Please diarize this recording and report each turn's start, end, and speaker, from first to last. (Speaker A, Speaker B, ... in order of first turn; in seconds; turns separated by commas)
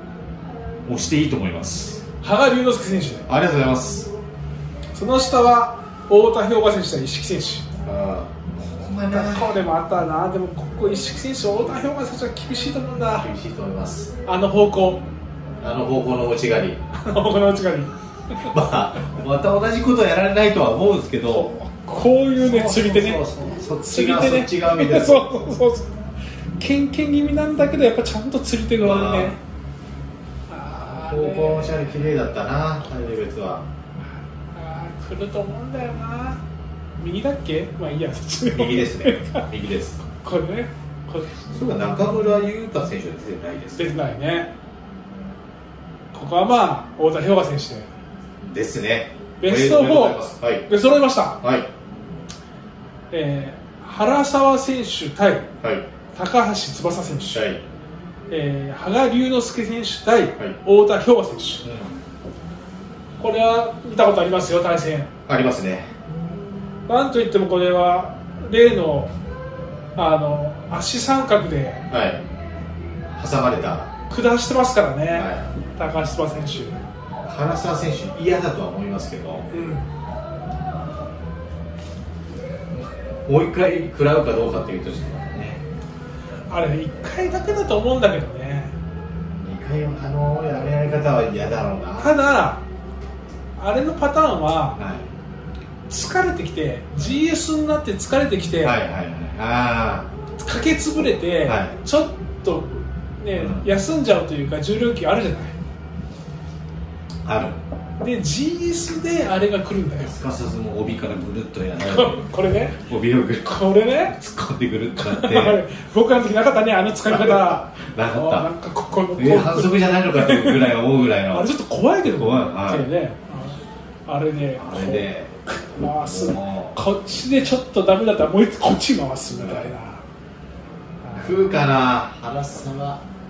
Speaker A: 0.9-2.0, Speaker B: 2.2-3.3, Speaker A: 3.3-4.1, Speaker B: 5.0-7.7, Speaker A: 7.8-9.6, Speaker B: 9.1-13.3, Speaker A: 13.2-14.1, Speaker B: 14.2-15.0, Speaker A: 15.6-16.8, Speaker B: 16.9-18.5, Speaker A: 18.4-21.5, Speaker B: 21.3-23.2, Speaker A: 22.4-25.4, Speaker B: 23.8-26.0, Speaker B: 26.6-29.4, Speaker A: 28.8-29.4, Speaker B: 30.5-32.0, Speaker A: 30.9-33.7, Speaker B: 34.5-36.4, Speaker B: 37.0-39.5, Speaker A: 38.5-40.0, Speaker B: 40.0-41.5, Speaker A: 41.5-43.9, Speaker B: 43.8-44.5, Speaker B: 46.1-47.9, Speaker A: 48.4-50.7, Speaker B: 49.4-51.4, Speaker A: 51.4-51.7, Speaker B: 53.1-55.5, Speaker A: 55.6-55.9, Speaker B: 56.1-57.5, Speaker A: 57.3-57.6, Speaker B: 58.3-61.6, Speaker A: 61.6-62.0, Speaker B: 63.2-65.1, Speaker A: 65.3-65.9, Speaker B: 66.9-69.1, Speaker B: 70.0-71.8, Speaker A: 71.9-72.2, Speaker A: 73.1-73.9, Speaker B: 74.1-76.9, Speaker A: 75.1-75.5, Speaker A: 77.2-79.5, Speaker B: 79.5-79.9, Speaker A: 82.7-85.6, Speaker B: 86.5-88.7, Speaker A: 89.3-92.2, Speaker B: 92.0-92.6, Speaker B: 93.6-94.8, Speaker A: 94.8-95.1, Speaker B: 95.9-98.8, Speaker A: 98.6-100.1, Speaker B: 100.4-105.5, Speaker A: 101.4-101.8, Speaker A: 103.3-103.7, Speaker A: 107.2-107.6, Speaker B: 108.0-110.2, Speaker A: 110.0-115.6, Speaker B: 111.8-112.8, Speaker B: 113.4-114.2, Speaker B: 115.0-120.8, Speaker A: 117.1-118.5, Speaker A: 119.2-121.5, Speaker B: 121.3-130.0, Speaker A: 122.1-122.9, Speaker A: 124.6-126.8, Speaker A: 129.4-129.7, Speaker B: 131.0-131.5, Speaker A: 131.1-133.0